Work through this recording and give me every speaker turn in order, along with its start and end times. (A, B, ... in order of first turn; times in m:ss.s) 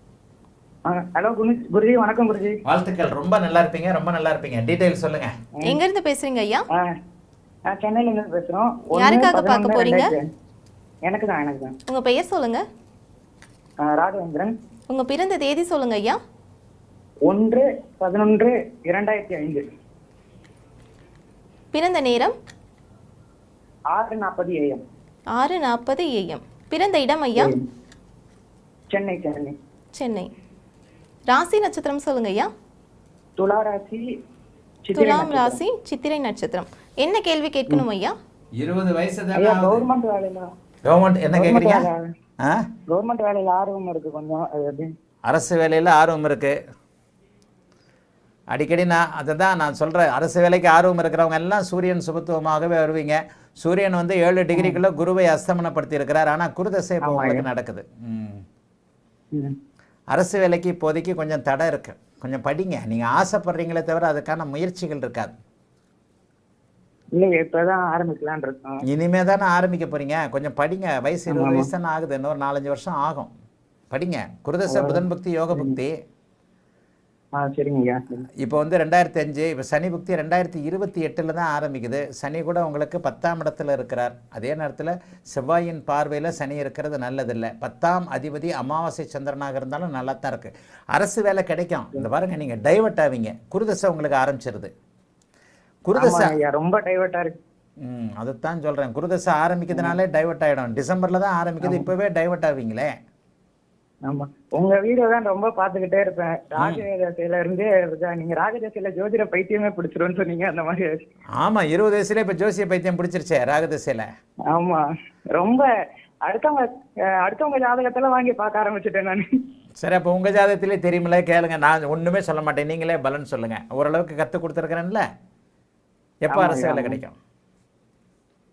0:00.9-0:02.5 A
0:02.7-0:05.3 B
0:05.6-0:06.6 C
0:07.7-0:10.2 A
0:09.0-0:10.1 C
0:11.1-0:11.8 A
0:11.9-0:12.6 C
0:13.8-0:14.5 A
0:14.9-0:16.2 C
0:17.3-0:19.6 A
0:21.7-0:22.4 C
0:24.0-0:24.8 A
0:25.3-0:27.5 C
0:27.4-0:27.6 A
0:28.9-0:29.6 A
0:30.0-0:30.3 C
0:31.3-0:32.5 C
0:33.4-0:34.0 A
0:34.9-0:35.6 A
0:35.0-0:38.1 C
0:38.6-0:39.9 B
0:39.3-0:40.5 A
0:40.9-0:41.9 B
0:41.4-0:42.0 A
0:42.4-0:42.7 B
0:42.9-0:44.9 A
0:45.3-0:46.6 B
0:48.5-0:58.4 B
0:54.6-0:54.8 A
0:57.0-0:57.5 A
1:00.1-1:05.4 B
1:07.2-1:08.8 A
1:08.8-1:13.3 B
1:11.3-1:11.7 A
1:13.9-1:15.9 B
1:14.7-1:15.0 A
1:17.4-1:18.3 A
1:18.4-1:34.7 B
1:35.8-1:36.4 B
1:36.0-1:37.3 A
1:37.8-1:42.9 B
1:44.1-1:50.9 A
1:46.6-1:46.8 B
1:51.4-1:54.1 B
1:54.5-1:54.8 A
1:55.4-1:55.7 A
1:56.3-1:56.7 A
1:57.2-1:59.2 A
1:59.8-2:05.0 B
2:06.2-2:07.2 B
2:06.3-2:07.0 A